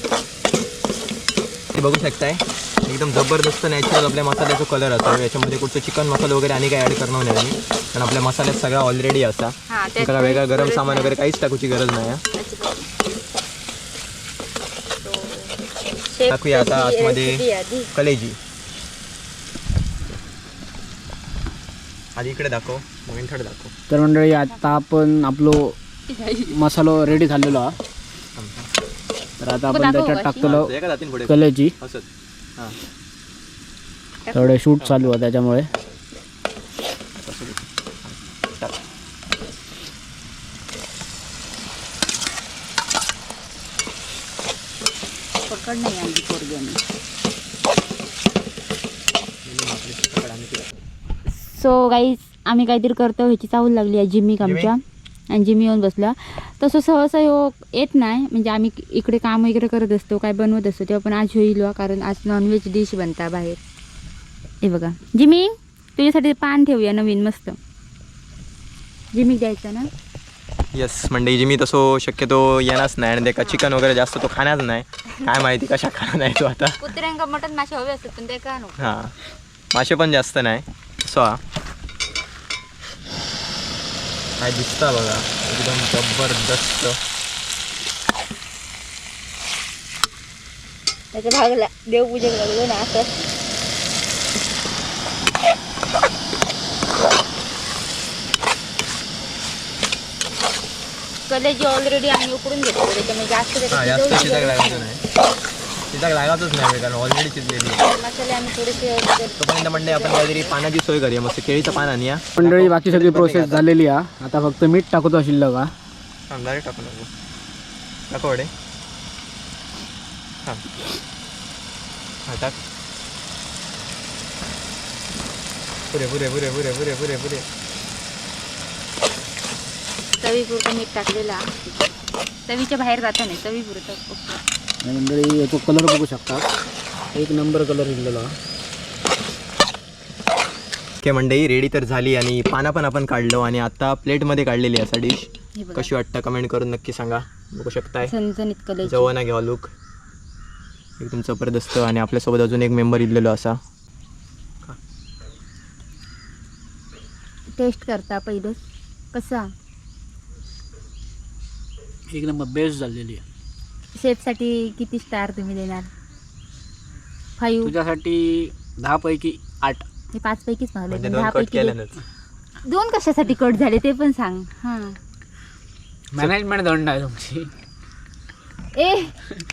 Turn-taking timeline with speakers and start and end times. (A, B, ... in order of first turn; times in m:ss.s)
0:01.7-0:12.2 A
0:09.7-0:11.2 B
0:12.2-0:12.9 B
0:15.0-0:15.6 B
0:16.1-0:17.9 B
0:16.3-0:17.4 A
0:17.9-0:18.4 A
0:22.2-0:23.7 A
0:23.9-0:25.8 C
0:24.5-0:24.8 B
0:26.1-0:26.6 B
0:26.5-0:27.8 C
0:28.4-0:28.7 A
0:29.4-0:30.7 C
0:29.7-0:30.5 B
0:30.4-0:32.8 A
0:31.3-0:31.8 C
0:34.3-0:34.6 B
0:34.3-0:35.7 C
0:34.8-0:35.1 A
0:37.2-0:38.8 A
0:45.5-0:46.8 B
0:49.4-0:50.7 A
0:51.4-0:54.8 B
0:54.4-0:54.7 A
0:55.3-1:03.6 B
1:04.6-1:07.6 B
1:09.1-1:09.9 B
1:10.7-1:16.8 A
1:13.4-1:13.7 B
1:16.8-1:18.8 B
1:18.8-1:19.1 A
1:19.7-1:21.4 A
1:24.4-1:27.0 A
1:31.1-1:33.3 B
1:41.3-1:44.9 B
1:43.7-1:45.0 A
1:45.9-1:47.8 A
1:47.8-1:50.5 B
1:49.4-1:53.7 A
1:52.4-1:55.7 C
1:56.3-1:57.1 A
1:58.1-1:58.5 A
2:02.3-2:02.6 A
2:05.9-2:07.5 A
2:10.2-2:11.9 B
2:12.5-2:14.4 B
2:14.8-2:16.5 C
2:17.1-2:18.4 C
2:21.0-2:28.1 A
2:25.6-2:25.9 B
2:28.0-2:29.1 B
2:28.8-2:29.7 A
2:31.0-2:33.6 A
2:37.6-2:38.6 B
2:39.1-2:39.5 B
2:42.1-2:43.2 C
2:44.0-2:45.9 B
2:47.4-2:47.8 B
2:47.6-2:49.8 C
2:50.1-2:51.8 B
2:50.9-2:52.0 A
2:52.6-2:55.0 B
2:56.1-2:57.5 C
2:58.8-2:59.2 B